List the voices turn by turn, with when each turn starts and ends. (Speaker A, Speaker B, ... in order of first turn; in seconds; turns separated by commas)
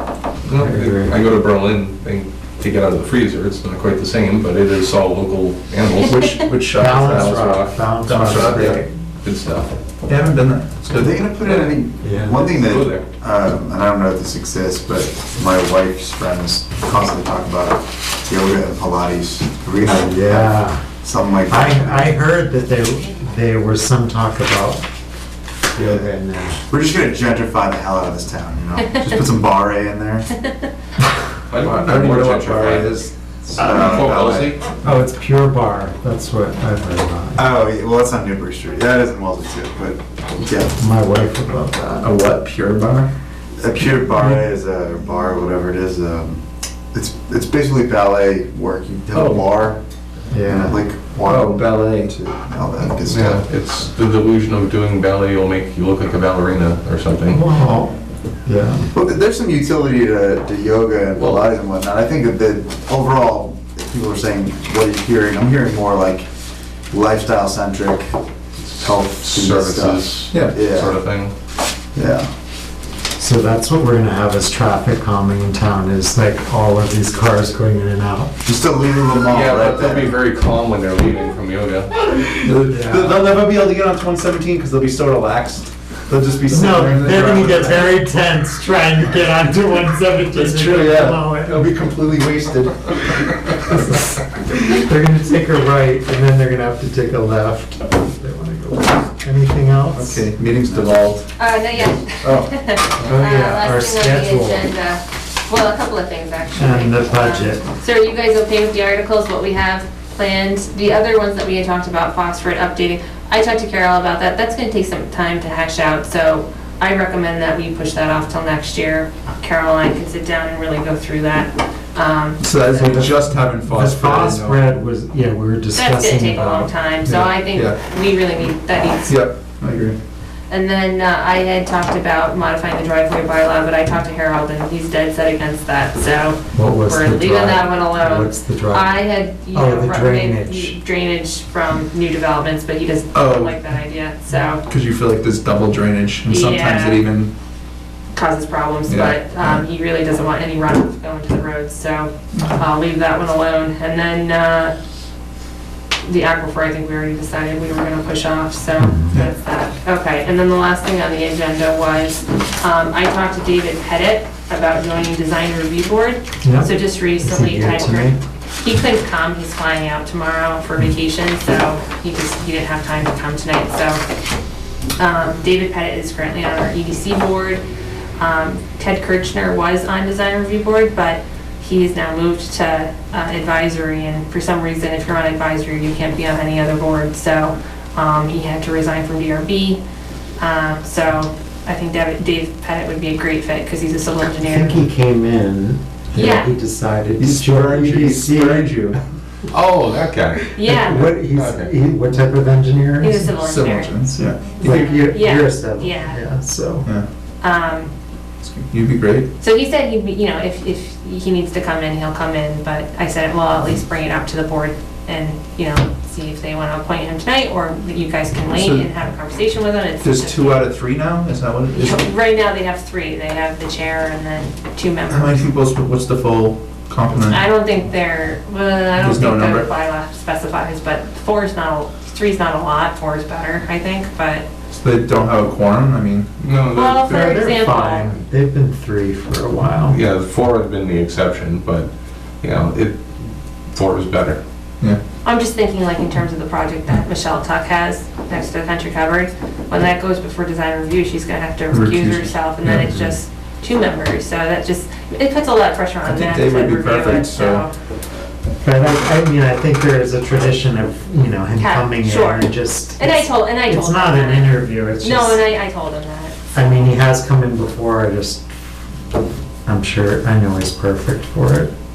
Speaker A: 0.4-6.3, Speaker B: 0.6-1.2, Speaker C: 6.0-8.8, Speaker B: 6.7-8.9, Speaker A: 7.0-9.7, Speaker C: 10.1-11.2, Speaker D: 10.9-22.1, Speaker A: 11.3-13.0, Speaker B: 12.0-12.4, Speaker B: 19.9-20.8, Speaker B: 21.5-24.8, Speaker B: 25.7-26.6, Speaker D: 26.7-30.3, Speaker A: 31.5-34.6, Speaker C: 31.6-34.4, Speaker D: 33.6-34.5, Speaker B: 34.8-37.5, Speaker D: 37.4-40.8, Speaker B: 40.8-42.1, Speaker C: 42.0-43.1, Speaker D: 43.6-46.4, Speaker B: 44.1-44.4, Speaker D: 46.9-49.8, Speaker C: 49.1-49.5, Speaker B: 50.3-50.8, Speaker D: 50.5-53.4, Speaker C: 51.2-52.1, Speaker A: 53.0-57.4, Speaker B: 57.3-57.9, Speaker B: 58.5-58.9, Speaker D: 58.9-66.3, Speaker A: 61.1-61.5, Speaker D: 66.9-68.2, Speaker A: 68.8-71.3, Speaker D: 68.8-71.0, Speaker C: 70.3-70.6, Speaker D: 71.9-72.3, Speaker B: 73.2-78.3, Speaker D: 78.4-80.2, Speaker A: 79.1-81.9, Speaker C: 82.3-88.0, Speaker B: 82.7-83.2, Speaker B: 86.5-91.7, Speaker C: 90.3-93.9, Speaker B: 94.7-100.3, Speaker C: 99.9-101.3, Speaker D: 100.6-101.0, Speaker E: 101.4-123.2, Speaker C: 102.2-102.5, Speaker B: 103.0-104.7, Speaker B: 106.5-107.7, Speaker C: 122.4-124.6, Speaker B: 123.6-127.3, Speaker E: 125.7-129.2, Speaker C: 129.1-129.9, Speaker E: 130.5-144.6, Speaker B: 136.5-139.0, Speaker B: 139.5-140.8, Speaker C: 143.1-143.6, Speaker C: 144.7-147.3, Speaker E: 146.3-147.0, Speaker E: 148.1-154.7, Speaker C: 148.9-149.6, Speaker C: 152.3-152.6, Speaker E: 156.0-174.0, Speaker B: 158.8-159.2, Speaker B: 166.4-168.2, Speaker E: 175.0-177.6, Speaker E: 178.2-189.8, Speaker E: 190.4-194.8, Speaker B: 194.4-198.9, Speaker E: 196.2-196.5, Speaker C: 197.2-199.0, Speaker A: 199.5-200.6, Speaker E: 200.6-201.1, Speaker B: 200.6-203.3, Speaker A: 201.3-201.7, Speaker E: 203.0-203.9, Speaker C: 203.4-204.5, Speaker B: 204.6-206.9, Speaker E: 204.6-206.2, Speaker E: 207.4-207.9, Speaker C: 208.4-209.3, Speaker E: 209.4-220.6, Speaker C: 218.5-218.9, Speaker C: 220.0-222.1, Speaker E: 221.8-225.4, Speaker C: 225.1-227.4, Speaker E: 227.2-234.4, Speaker C: 228.9-229.7, Speaker C: 234.7-236.4, Speaker A: 236.4-237.2, Speaker E: 236.7-238.1, Speaker B: 237.1-240.0, Speaker A: 239.9-241.9, Speaker A: 242.4-244.4, Speaker E: 245.2-257.7, Speaker C: 251.7-253.0, Speaker C: 256.0-257.6, Speaker B: 258.6-265.4, Speaker E: 261.6-266.9, Speaker B: 266.5-268.4, Speaker B: 269.6-271.7